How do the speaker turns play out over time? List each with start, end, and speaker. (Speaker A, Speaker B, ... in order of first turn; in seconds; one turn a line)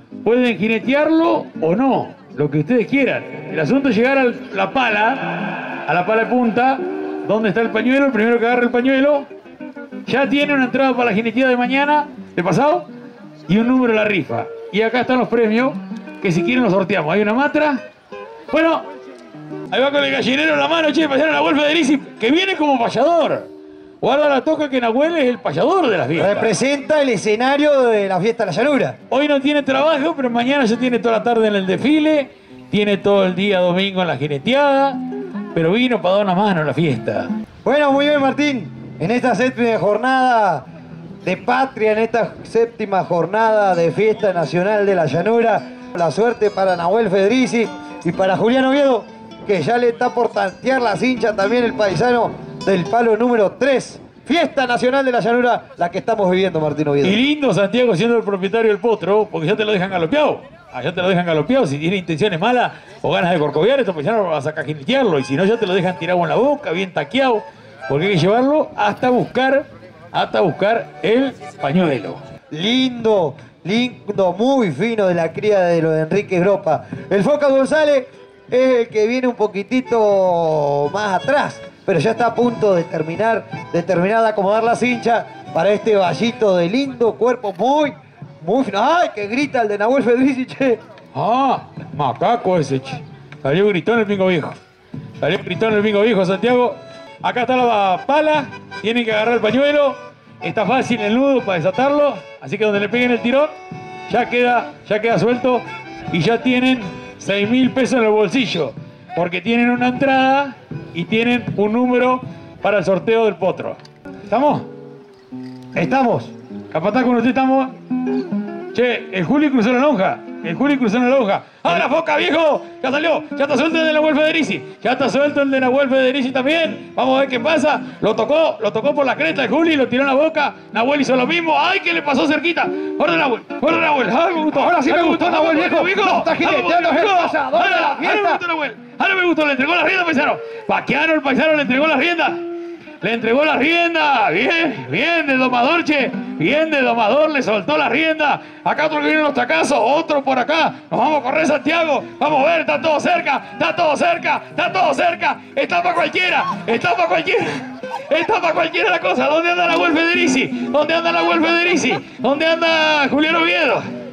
Speaker A: 0.2-9.3
Speaker A: 10.1-12.9
Speaker A: 13.5-17.8
Speaker A: 18.5-18.9
Speaker A: 19.7-23.5
Speaker A: 24.0-26.5
Speaker B: 26.2-28.9
Speaker A: 29.1-35.0
Speaker A: 35.5-37.3
Speaker B: 37.6-40.6
Speaker B: 41.2-57.2
Speaker A: 57.0-72.2
Speaker B: 72.5-90.8
Speaker A: 91.1-94.6
Speaker A: 95.2-103.5
Speaker A: 104.1-114.7
Speaker B: 115.7-116.3
Speaker A: 116.7-117.7
Speaker A: 118.7-142.4
Speaker B: 134.4-138.4
Speaker A: 143.0-163.8